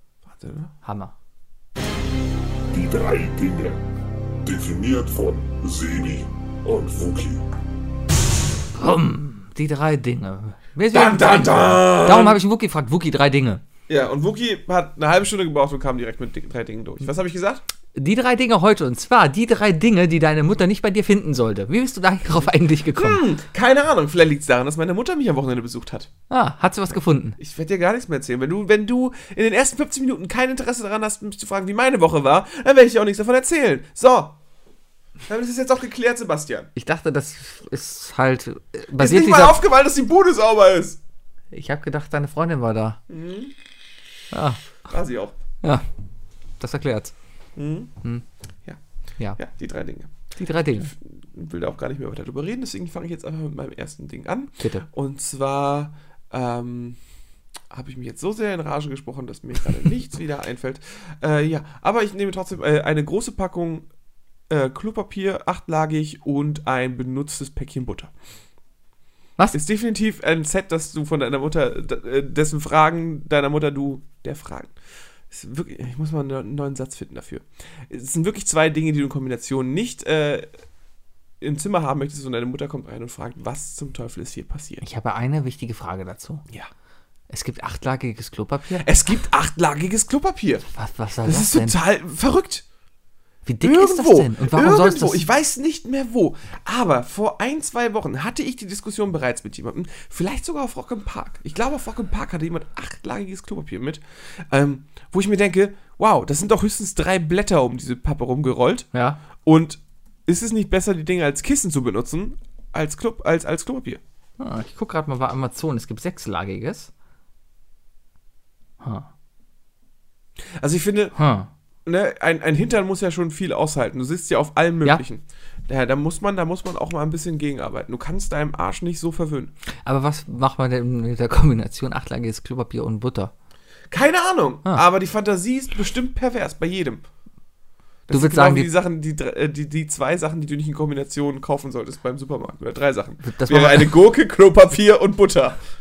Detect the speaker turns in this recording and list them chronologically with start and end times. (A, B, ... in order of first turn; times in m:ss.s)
0:00.3-0:00.7 A
0:00.8-0:01.1 B
0:02.7-0:03.8 C
0:04.4-0:07.4 C
0:08.8-0:13.6 B
0:10.9-0:12.4 A
0:13.9-0:17.6 A
0:18.0-0:23.2 B
0:23.0-0:26.1 A
0:26.3-0:27.4 B
0:27.4-0:34.4 A
0:35.3-0:36.7 A
0:36.8-0:39.6 B
0:39.0-0:41.0 A
0:41.5-0:43.0 B
0:43.1-0:43.5 A
0:44.3-0:44.6 B
0:44.9-0:45.4 A
0:46.6-0:47.1 B
0:47.6-0:47.9 A
0:49.4-0:50.1 A
0:50.4-0:50.9 B
0:50.9-0:57.0 A
0:54.6-0:54.9 B
0:57.7-1:03.9 A
1:04.5-1:08.1 A
1:09.5-1:14.7 A
1:15.3-1:20.5 A
1:21.4-1:24.8 A
1:24.8-1:26.4 B
1:27.3-1:28.9 B
1:28.8-1:30.7 A
1:30.7-1:31.8 B
1:31.2-1:32.6 A
1:33.4-1:35.2 B
1:33.6-1:48.9 A
1:48.9-1:49.2 B
1:49.4-1:54.0 A
1:54.4-1:56.9 B
1:58.8-1:59.1 B
2:00.6-2:01.2 A
2:01.2-2:01.5 B
2:01.9-2:09.5 A
2:09.9-2:13.3 B
2:13.9-2:17.0 A
2:18.1-2:25.6 A
2:18.1-2:18.7 B
2:23.2-2:23.9 B